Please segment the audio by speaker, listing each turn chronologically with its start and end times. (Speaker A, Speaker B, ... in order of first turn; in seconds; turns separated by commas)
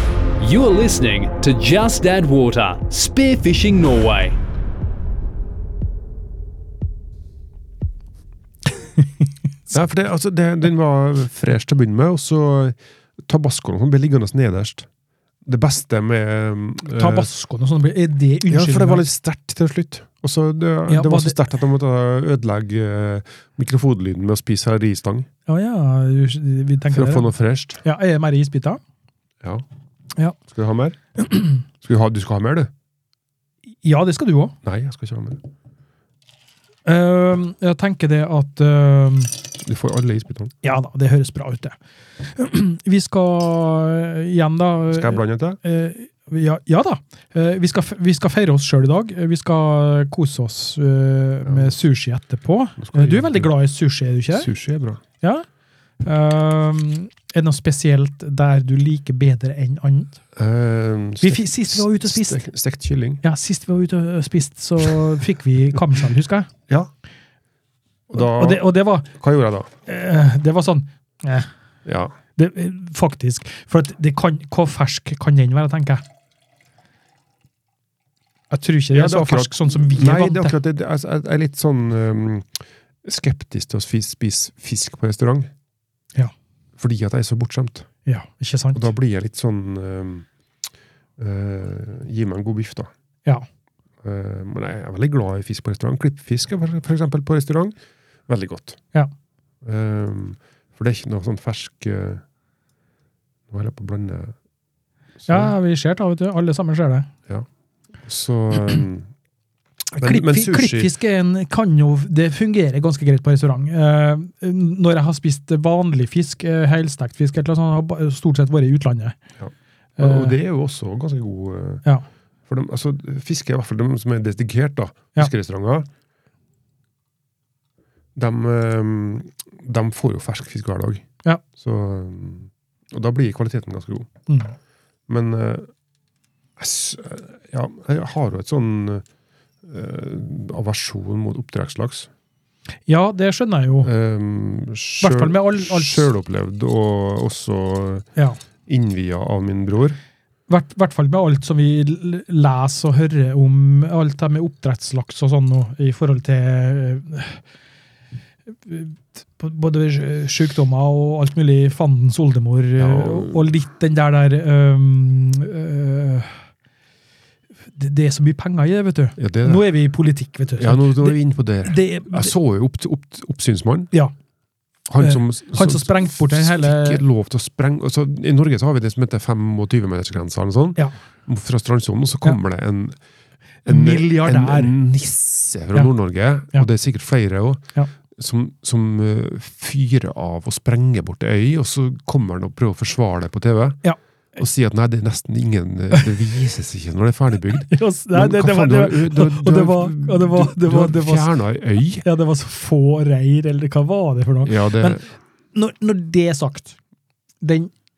Speaker A: 0.4-4.4, Speaker B: 9.7-14.9, Speaker B: 15.4-17.3, Speaker C: 16.9-19.0, Speaker B: 18.5-25.3, Speaker C: 20.9-21.4, Speaker C: 25.5-28.8, Speaker B: 26.9-27.8, Speaker B: 30.5-32.7, Speaker C: 33.8-34.5, Speaker B: 34.6-35.4, Speaker C: 36.8-39.3, Speaker B: 39.6-40.5, Speaker C: 40.6-54.5, Speaker B: 44.9-45.6, Speaker B: 51.4-51.7, Speaker B: 52.8-53.5, Speaker B: 54.3-55.0, Speaker C: 55.2-55.5, Speaker C: 56.0-60.2, Speaker B: 60.4-63.2, Speaker C: 61.2-62.4, Speaker C: 63.2-66.5, Speaker B: 68.1-69.7, Speaker C: 68.1-69.1, Speaker C: 69.8-71.5, Speaker B: 71.8-72.1, Speaker C: 72.4-76.0, Speaker C: 78.5-80.5, Speaker B: 78.9-85.5, Speaker B: 86.8-87.9, Speaker C: 88.0-88.9, Speaker B: 88.7-90.2, Speaker B: 91.2-92.9, Speaker B: 94.0-97.7, Speaker B: 98.3-98.8, Speaker B: 99.6-102.2, Speaker B: 103.5-104.3, Speaker B: 105.2-105.5, Speaker C: 105.3-107.1, Speaker B: 108.0-109.1, Speaker C: 109.9-119.2, Speaker B: 110.0-110.9, Speaker B: 119.4-121.8, Speaker C: 120.0-120.3, Speaker B: 122.5-125.9, Speaker B: 128.1-134.1, Speaker C: 134.3-134.5, Speaker B: 135.1-135.7, Speaker B: 136.6-139.0, Speaker B: 139.6-142.1, Speaker C: 142.9-143.9, Speaker B: 143.8-148.1, Speaker C: 145.0-146.1, Speaker B: 148.7-150.0, Speaker C: 150.5-157.4, Speaker C: 158.5-166.4, Speaker B: 162.8-163.4, Speaker C: 167.7-172.3, Speaker B: 169.2-169.6, Speaker B: 170.6-173.9, Speaker B: 174.9-183.0, Speaker C: 175.0-177.0, Speaker B: 183.6-193.8, Speaker C: 183.7-184.7, Speaker B: 194.3-202.0, Speaker C: 197.6-201.3, Speaker C: 202.0-205.0, Speaker B: 204.4-205.1, Speaker C: 205.5-206.8, Speaker C: 207.4-207.7